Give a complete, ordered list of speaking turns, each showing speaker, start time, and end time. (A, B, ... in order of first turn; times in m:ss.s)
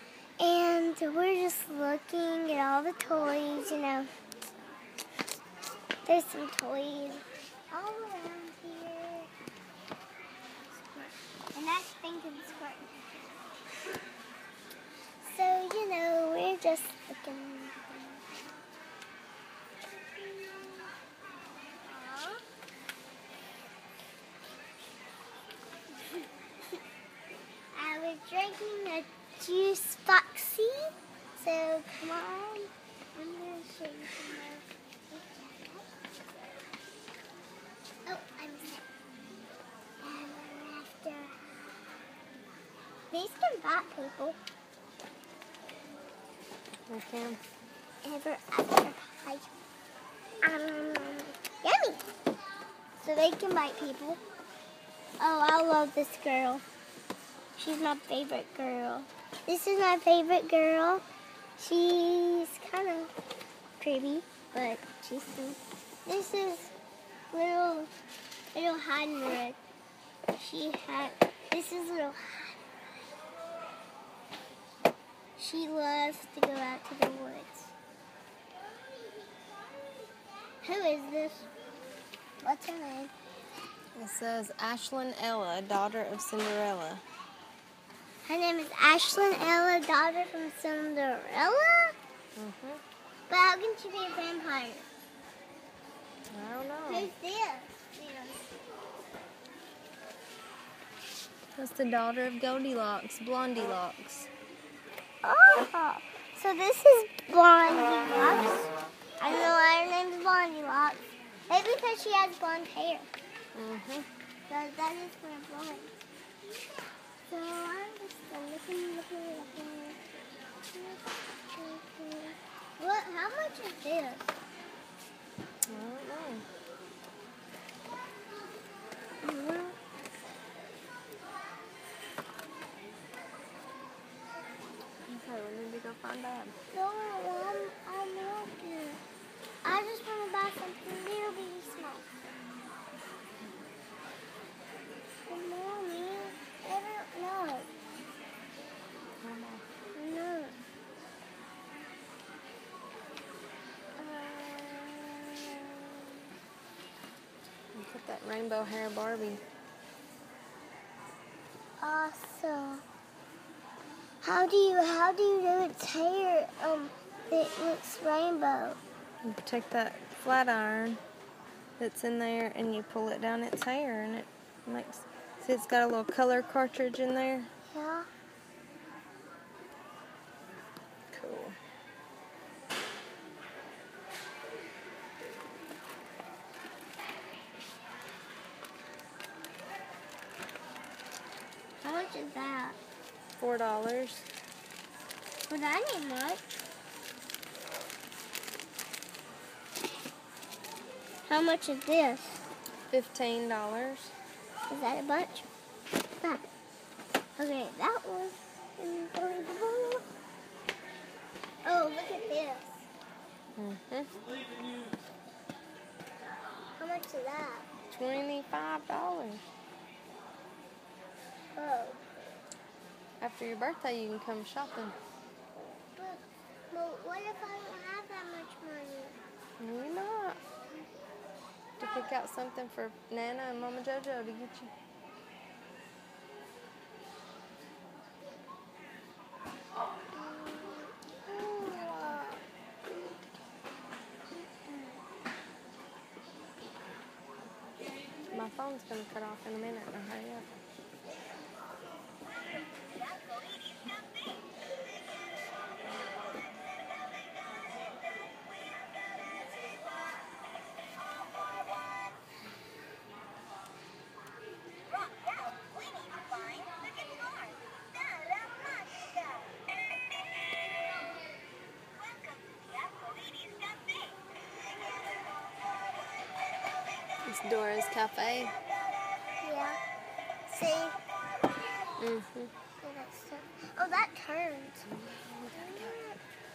0:00.4-0:04.1 A
0:06.1-0:09.3 A
0:10.7-0:13.0 A
0:15.2-0:18.2 A
0:20.2-0:20.9 A
0:21.8-0:22.4 A
0:27.7-0:36.1 A
0:38.1-0:38.8 A
0:40.0-0:41.4 A
0:43.1-0:44.4 A
0:46.9-0:47.4 B
0:48.0-0:49.5 A
0:50.4-0:52.0 A
0:53.0-0:54.2 A
0:55.2-0:56.6 A
0:57.6-1:01.0 A
1:01.6-1:03.1 A
1:03.8-1:06.7 A
1:07.3-1:07.9 A
1:08.5-1:09.6 A
1:10.4-1:12.6 A
1:15.4-1:17.7 A
1:20.6-1:21.5 A
1:22.4-1:23.1 A
1:24.0-1:27.0 B
1:28.2-1:32.0 A
1:32.4-1:32.8 B
1:33.3-1:34.9 A
1:36.3-1:37.1 B
1:36.9-1:38.5 A
1:41.6-1:44.3 B
1:45.2-1:53.1 A
1:53.6-1:54.1 B
1:54.5-1:56.0 A
1:57.3-2:00.0 A
2:00.7-2:04.4 A
2:05.7-2:06.4 B
2:09.2-2:09.8 A
2:15.1-2:16.6 B
2:16.7-2:19.0 A
2:19.6-2:22.1 A
2:25.2-2:27.7 A
2:29.2-2:29.6 B
2:30.0-2:30.6 A
2:34.0-2:36.2 A
2:37.7-2:39.4 B
2:41.8-2:42.8 A
2:44.2-2:48.8 A
2:49.2-2:51.0 B
2:51.8-2:57.5 B
2:57.7-2:58.1 A
3:01.1-3:01.6 B
3:11.8-3:12.8 A
3:13.4-3:14.3 B
3:15.5-3:16.5 A
3:21.3-3:22.4 A
3:22.9-3:24.1 B
3:24.7-3:25.5 A
3:26.2-3:26.5 A
3:27.4-3:30.0 A
3:31.6-3:32.9 A
3:33.6-3:34.1 B
3:36.8-3:37.7 A
3:37.9-3:39.4 B
3:41.5-3:42.1 A
3:43.2-3:45.0 B
3:46.0-3:49.2 A
3:49.6-3:50.4 B
3:51.8-3:54.7 B
4:00.1-4:02.4 A
4:04.7-4:05.0 A
4:08.3-4:10.6 B
4:25.9-4:27.5 A
4:37.3-4:38.6 B
4:39.4-4:39.8 A
4:40.5-4:41.0 A
4:42.0-4:42.5 B
4:42.8-4:44.9 A
4:44.9-4:46.0 B
4:45.5-4:46.2 A